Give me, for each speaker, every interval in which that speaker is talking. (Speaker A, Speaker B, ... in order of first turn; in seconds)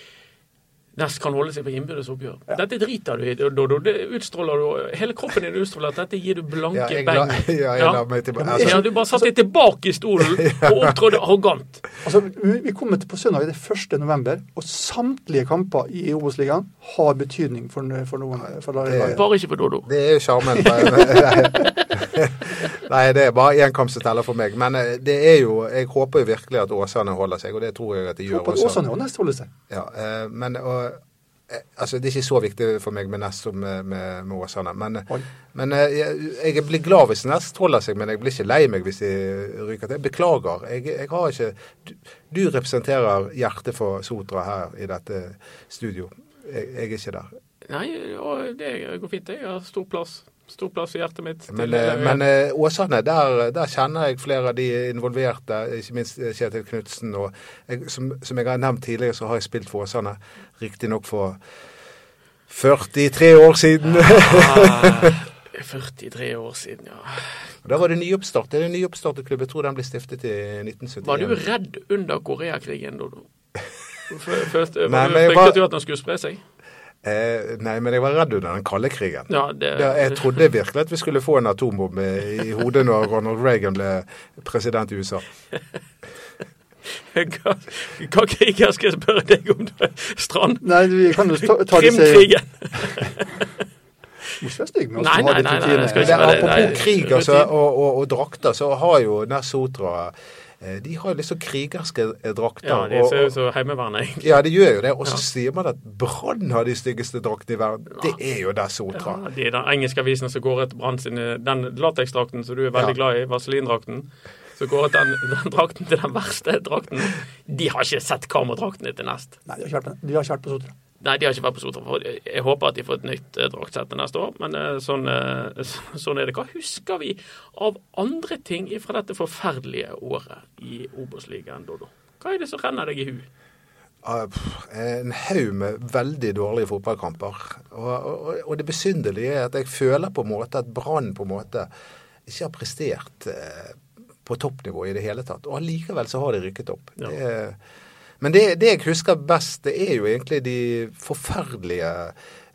Speaker A: 0.9-11.8, 19.1-19.9, 47.7-52.2, 63.9-67.4, 71.0-73.3, 74.1-76.4, 79.3-80.4, 87.1-93.5, 95.0-97.5, 102.6-104.4, 108.9-119.4, 121.0-133.3
Speaker B: 6.7-8.8, 10.4-10.9, 18.8-19.2, 19.8-28.8, 29.7-47.3, 51.5-61.4, 62.5-65.1, 67.6-71.4, 74.9-75.6, 77.0-85.2, 96.0-103.3, 104.2-109.2, 134.0-141.7, 142.2-147.6, 148.2-152.1
Speaker C: 8.4-9.3, 12.0-19.2, 20.6-21.7, 28.3-29.5, 90.6-93.1, 94.4-96.8, 119.5-120.7